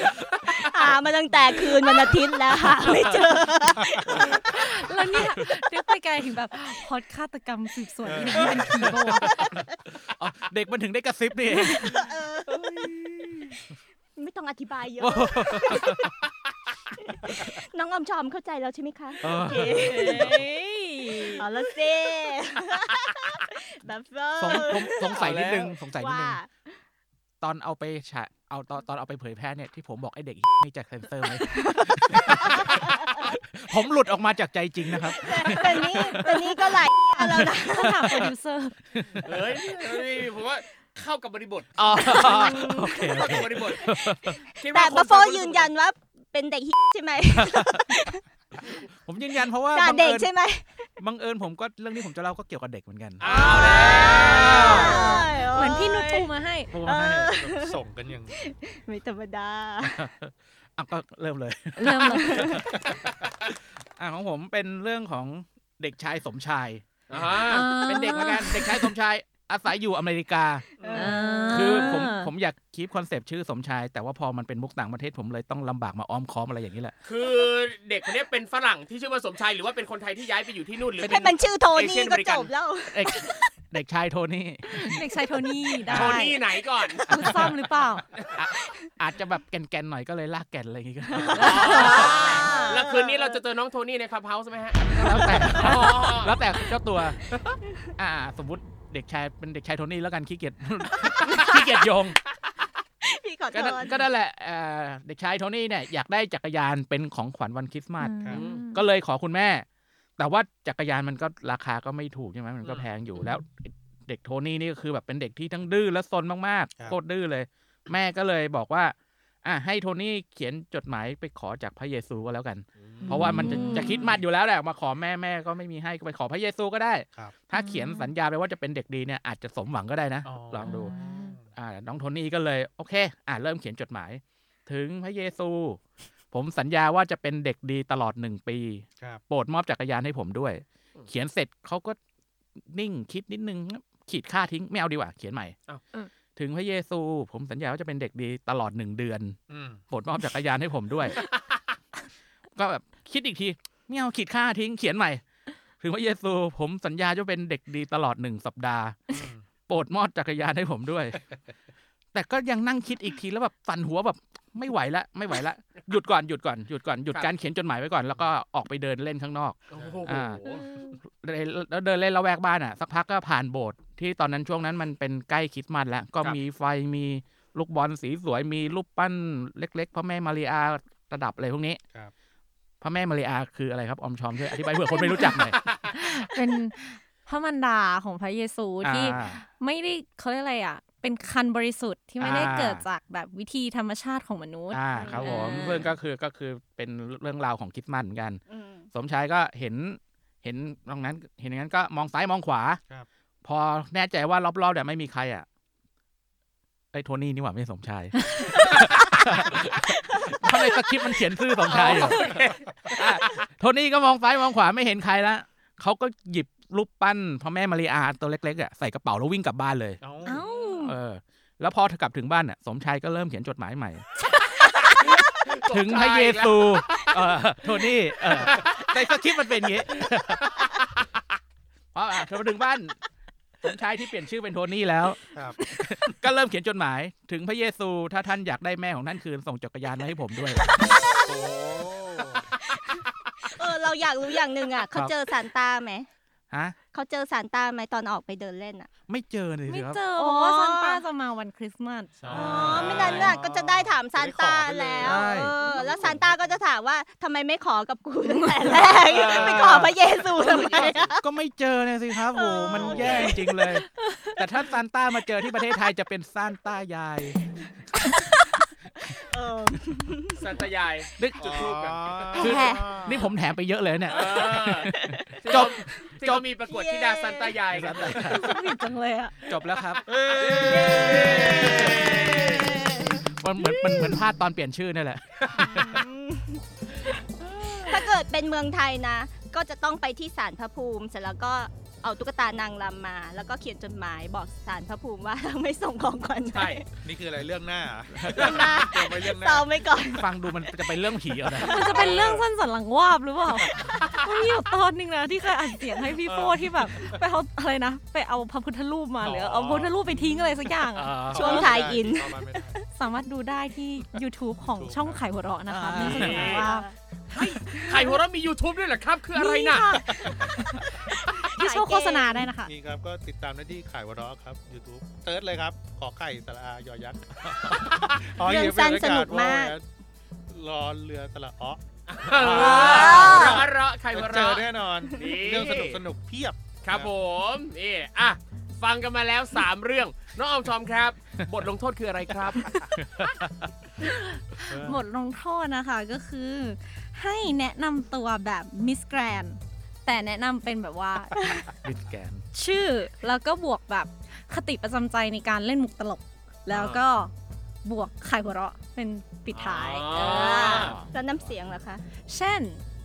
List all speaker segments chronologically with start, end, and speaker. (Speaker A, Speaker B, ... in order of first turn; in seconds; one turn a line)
Speaker A: 0.5-4.6
Speaker B: 2.8-3.1
Speaker C: 4.3-9.4
Speaker B: 5.1-5.6
Speaker D: 8.1-8.9
Speaker B: 8.3-12.0
Speaker A: 11.5-13.6
Speaker A: 14.2-16.1
Speaker B: 15.0-16.1
Speaker A: 17.0-25.2
Speaker B: 19.2-20.4
Speaker B: 24.4-26.4
Speaker E: 24.6-25.8
Speaker A: 25.9-26.7
Speaker B: 27.4-36.7
Speaker A: 31.4-33.3
Speaker A: 35.0-38.0
Speaker C: 36.8-38.8
Speaker B: 37.7-38.3
Speaker B: 38.9-39.5
Speaker E: 39.2-45.7
Speaker B: 41.8-44.4
Speaker A: 42.1-43.0
Speaker A: 44.6-48.7
Speaker B: 47.4-47.9
Speaker B: 49.1-50.3
Speaker A: 49.7-50.9
Speaker B: 51.0-55.1
Speaker E: 53.2-55.0
Speaker A: 53.2-56.3
Speaker C: 54.6-56.7
Speaker B: 56.7-57.4
Speaker A: 56.8-57.8
Speaker D: 57.3-58.3
Speaker A: 58.3-60.0
Speaker B: 59.8-63.3
Speaker C: 61.8-62.6
Speaker A: 62.1-62.6
Speaker B: 64.0-66.8
Speaker E: 67.1-67.9
Speaker D: 67.1-67.5
Speaker B: 67.4-70.7
Speaker C: 67.5-68.9
Speaker D: 70.8-71.4
Speaker A: 70.8-72.1
Speaker C: 70.9-72.3
Speaker B: 71.5-77.0
Speaker E: 77.0-82.5
Speaker A: 81.0-83.5
Speaker B: 82.9-85.0
Speaker C: 84.7-86.4
Speaker E: 85.9-87.1
Speaker D: 85.9-86.2
Speaker C: 87.1-88.1
Speaker B: 88.3-92.1
Speaker A: 91.2-93.4
Speaker C: 91.3-92.8
Speaker E: 91.3-96.4
Speaker B: 94.9-97.2
Speaker B: 98.0-102.2
Speaker A: 101.3-101.7
Speaker A: 103.0-104.0
Speaker B: 103.5-109.7
Speaker C: 108.0-108.8
Speaker B: 110.2-130.9
Speaker D: 123.0-123.4
Speaker C: 123.0-124.2
Speaker C: 127.5-128.1
Speaker D: 130.2-131.4
Speaker C: 130.7-131.4
Speaker B: 131.6-135.8
Speaker B: 136.3-142.0
Speaker B: 142.6-145.6
Speaker B: 146.4-149.4
Speaker D: 149.5-149.8
Speaker B: 149.9-151.2
Speaker B: 152.6-155.2
Speaker B: 155.8-159.0
Speaker D: 159.1-159.5
Speaker B: 159.7-161.2
Speaker B: 162.1-170.4
Speaker E: 169.7-170.6
Speaker D: 169.8-170.1
Speaker C: 170.4-171.0
Speaker B: 171.0-181.8
Speaker B: 182.8-185.6
Speaker C: 184.9-185.3
Speaker E: 185.4-185.9
Speaker C: 185.9-195.9
Speaker B: 188.8-189.4
Speaker B: 192.2-192.9
Speaker B: 194.7-198.4
Speaker A: 194.9-195.4
Speaker A: 198.5-198.9
Speaker B: 198.9-202.8
Speaker B: 203.4-205.5
Speaker B: 206.9-212.3
Speaker E: 211.6-213.4
Speaker C: 211.7-212.4
Speaker B: 212.9-220.0
Speaker D: 220.0-220.5
Speaker C: 220.2-221.0
Speaker B: 220.8-224.1
Speaker C: 224.4-224.7
Speaker E: 224.8-227.4
Speaker B: 225.7-230.5
Speaker E: 228.3-228.8
Speaker B: 231.9-233.0
Speaker B: 233.6-240.7
Speaker D: 235.3-235.6
Speaker A: 240.8-242.4
Speaker D: 241.3-242.4
Speaker A: 242.9-246.1
Speaker B: 246.5-246.8
Speaker A: 246.9-248.9
Speaker B: 249.1-250.0
Speaker C: 249.7-252.6
Speaker A: 250.2-251.1
Speaker D: 252.2-256.6
Speaker A: 252.3-261.3
Speaker B: 252.3-252.7
Speaker B: 255.0-255.6
Speaker C: 258.4-258.7
Speaker B: 258.6-267.4
Speaker D: 259.1-259.6
Speaker E: 260.3-261.1
Speaker A: 262.3-263.5
Speaker D: 262.8-263.3
Speaker C: 263.8-264.4
Speaker A: 269.0-270.5
Speaker E: 270.4-272.5
Speaker B: 271.2-271.6
Speaker D: 271.4-273.3
Speaker B: 272.4-276.4
Speaker A: 272.4-272.9
Speaker E: 274.1-278.2
Speaker A: 275.1-275.8
Speaker A: 276.6-277.6
Speaker B: 277.7-278.6
Speaker C: 278.1-279.4
Speaker B: 279.5-282.2
Speaker D: 280.1-281.6
Speaker E: 280.4-282.8
Speaker A: 280.6-283.2
Speaker B: 283.3-286.1
Speaker A: 285.6-286.6
Speaker A: 287.4-296.9
Speaker E: 287.8-288.1
Speaker E: 296.5-296.8
Speaker D: 297.0-299.7
Speaker B: 298.1-298.6
Speaker A: 298.3-300.3
Speaker E: 298.4-298.8
Speaker B: 300.1-301.9
Speaker C: 301.6-311.8
Speaker D: 301.8-302.3
Speaker E: 301.9-302.4
Speaker E: 303.9-304.2
Speaker D: 306.2-307.1
Speaker D: 309.2-312.8
Speaker B: 310.9-311.5
Speaker A: 311.3-312.8
Speaker C: 312.9-318.2
Speaker D: 314.6-315.2
Speaker B: 315.7-316.6
Speaker E: 316.0-316.7
Speaker A: 316.1-316.9
Speaker E: 317.3-319.9
Speaker C: 319.4-322.7
Speaker D: 320.1-320.4
Speaker A: 320.6-322.5
Speaker D: 322.6-329.8
Speaker A: 328.4-329.8
Speaker D: 330.5-333.5
Speaker E: 332.1-336.0
Speaker A: 332.4-333.7
Speaker B: 333.2-333.6
Speaker D: 334.1-337.1
Speaker A: 335.1-335.4
Speaker E: 336.8-342.7
Speaker B: 342.7-343.7
Speaker C: 344.0-351.7
Speaker D: 344.6-345.0
Speaker B: 351.8-352.4
Speaker C: 352.5-357.3
Speaker E: 356.7-357.0
Speaker C: 357.8-360.9
Speaker E: 359.5-361.0
Speaker A: 360.2-362.0
Speaker B: 360.7-361.1
Speaker C: 362.3-362.8